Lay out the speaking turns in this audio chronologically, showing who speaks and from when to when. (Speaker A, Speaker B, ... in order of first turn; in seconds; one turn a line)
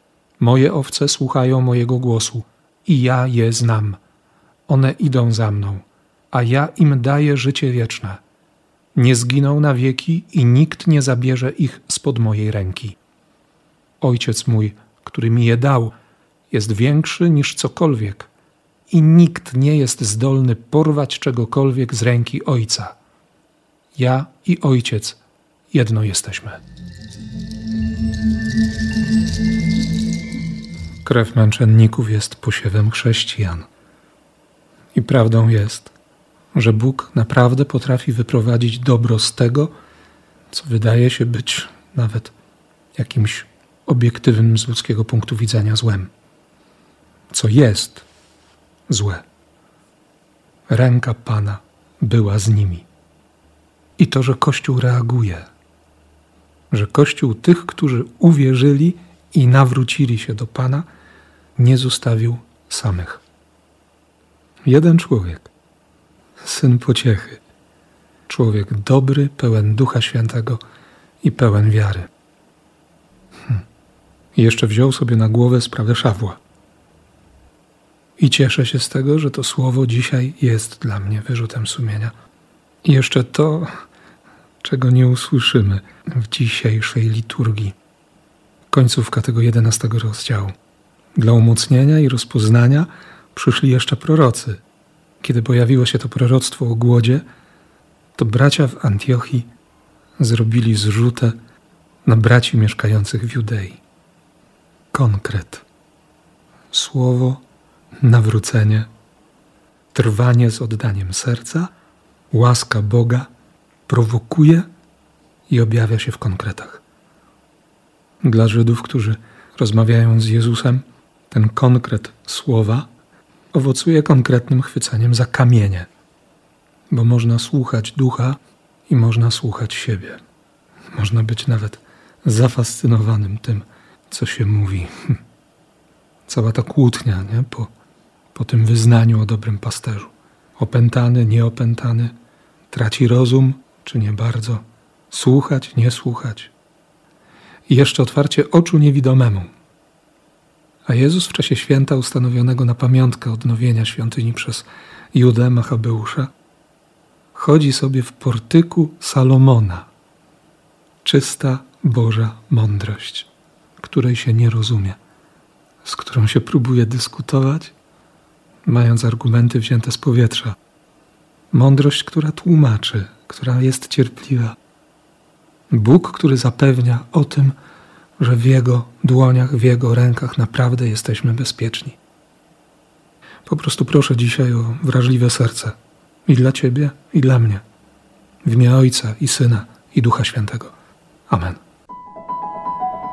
Speaker A: 0.4-4.0
Speaker A: 4.7-8.2
Speaker A: 8.9-13.0
Speaker A: 14.0-15.9
Speaker A: 16.5-18.3
Speaker A: 18.9-22.9
Speaker A: 23.9-25.2
Speaker A: 25.7-26.6
Speaker A: 31.0-33.7
Speaker A: 34.9-35.9
Speaker A: 36.5-39.7
Speaker A: 40.5-42.3
Speaker A: 42.9-46.1
Speaker A: 47.3-48.1
Speaker A: 48.9-49.2
Speaker A: 50.7-52.9
Speaker A: 54.0-55.5
Speaker A: 56.7-60.9
Speaker A: 61.5-63.2
Speaker A: 64.6-65.5
Speaker A: 66.4-67.4
Speaker A: 68.3-70.6
Speaker A: 71.2-72.1
Speaker A: 74.3-76.4
Speaker A: 78.2-82.1
Speaker A: 82.8-83.8
Speaker A: 84.6-87.7
Speaker A: 88.7-90.5
Speaker A: 91.1-94.6
Speaker A: 95.2-97.2
Speaker A: 98.1-99.5
Speaker A: 100.2-101.4
Speaker A: 102.0-103.8
Speaker A: 104.9-105.6
Speaker A: 106.7-107.4
Speaker A: 108.0-108.9
Speaker A: 109.9-111.7
Speaker A: 112.3-113.3
Speaker A: 113.9-114.7
Speaker A: 115.5-116.8
Speaker A: 118.2-122.9
Speaker A: 123.5-125.9
Speaker A: 126.9-130.2
Speaker A: 130.9-135.2
Speaker A: 136.3-137.7
Speaker A: 138.3-142.1
Speaker A: 142.7-146.5
Speaker A: 147.7-149.5
Speaker A: 150.8-156.3
Speaker A: 157.3-159.9
Speaker A: 161.0-165.0
Speaker A: 165.8-167.7
Speaker A: 168.6-170.6
Speaker A: 171.5-174.6
Speaker A: 175.7-177.5
Speaker A: 178.2-182.0
Speaker A: 183.4-187.6
Speaker A: 188.4-190.7
Speaker A: 191.3-191.6